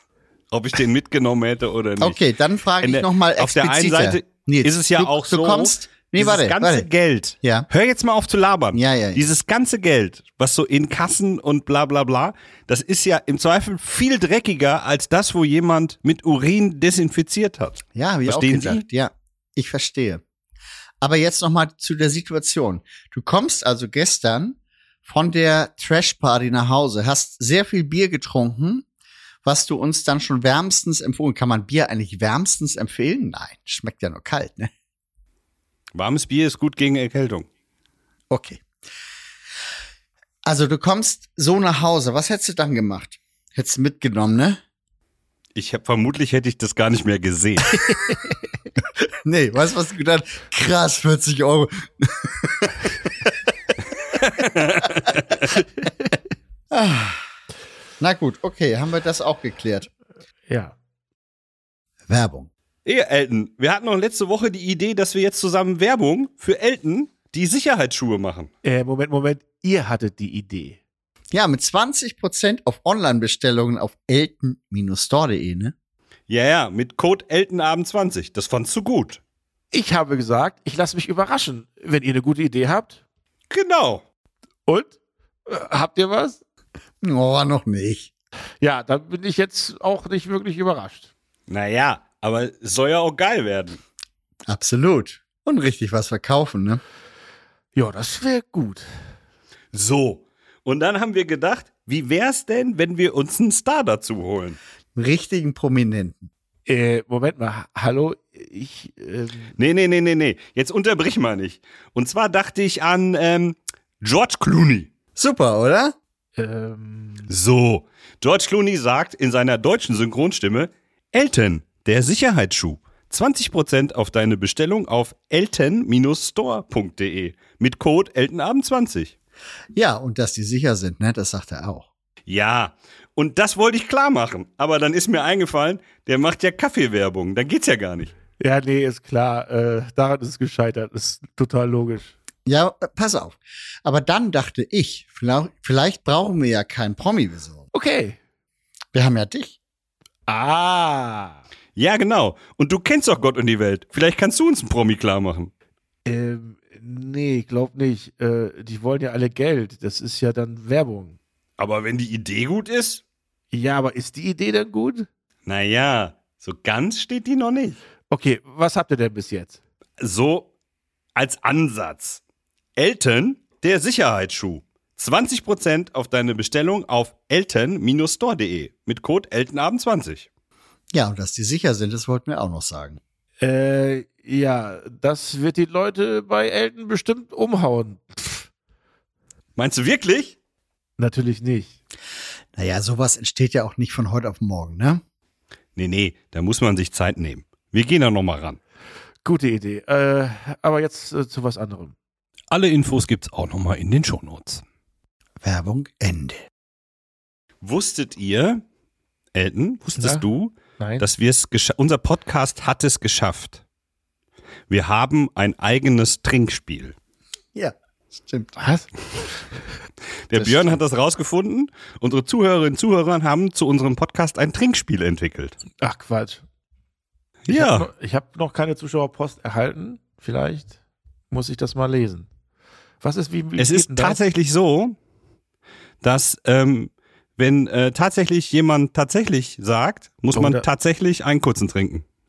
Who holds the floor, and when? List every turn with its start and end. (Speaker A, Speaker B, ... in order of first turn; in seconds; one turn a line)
Speaker A: 0.5-2.2
Speaker B: 2.0-6.9
Speaker A: 2.8-18.8
Speaker B: 7.4-7.7
Speaker B: 8.7-9.2
Speaker B: 17.9-20.2
Speaker B: 21.0-28.9
Speaker B: 29.4-34.7
Speaker A: 35.9-37.5
Speaker B: 38.3-38.6
Speaker B: 40.4-44.6
Speaker A: 45.5-47.8
Speaker B: 49.2-52.9
Speaker A: 54.2-55.6
Speaker B: 56.7-57.2
Speaker B: 58.0-59.9
Speaker C: 60.5-60.8
Speaker B: 62.1-62.5
Speaker A: 62.9-68.5
Speaker C: 68.6-70.8
Speaker B: 71.3-75.7
Speaker A: 76.3-79.2
Speaker C: 79.7-83.0
Speaker A: 83.5-84.0
Speaker C: 84.7-84.9
Speaker C: 85.5-86.4
Speaker B: 87.0-88.1
Speaker C: 88.6-91.1
Speaker A: 91.5-93.8
Speaker B: 94.5-96.8
Speaker C: 97.8-98.9
Speaker A: 99.7-104.6
Speaker B: 104.9-106.3
Speaker C: 106.7-109.5
Speaker A: 109.6-114.9
Speaker B: 115.2-116.0
Speaker C: 116.4-117.3
Speaker A: 117.3-129.1
Speaker B: 129.7-131.9
Speaker A: 132.3-138.1
Speaker C: 138.4-142.1
Speaker B: 142.4-147.6
Speaker C: 147.7-148.2
Speaker B: 148.9-149.6
Speaker C: 150.3-151.4
Speaker A: 151.8-155.5
Speaker C: 156.1-161.2
Speaker A: 161.6-163.0
Speaker C: 163.5-165.1
Speaker A: 165.4-167.8
Speaker C: 168.1-169.6
Speaker A: 170.0-170.5
Speaker A: 171.2-172.2
Speaker A: 172.8-180.3
Speaker B: 180.9-183.0
Speaker C: 183.4-188.4
Speaker A: 189.6-190.3
Speaker C: 191.0-191.8
Speaker B: 192.6-195.0
Speaker A: 195.8-198.6
Speaker C: 199.2-201.9
Speaker A: 202.5-204.6
Speaker B: 205.4-206.4
Speaker A: 207.6-208.6
Speaker A: 209.3-213.6
Speaker C: 209.9-210.2
Speaker C: 210.8-211.1
Speaker A: 214.7-216.9
Speaker B: 217.6-218.6
Speaker C: 218.6-218.9
Speaker A: 220.3-225.6
Speaker C: 225.8-226.4
Speaker A: 227.4-227.9
Speaker C: 227.5-230.8
Speaker C: 231.3-232.3
Speaker C: 233.0-234.2
Speaker A: 233.6-234.9
Speaker A: 236.0-242.1
Speaker C: 240.3-240.7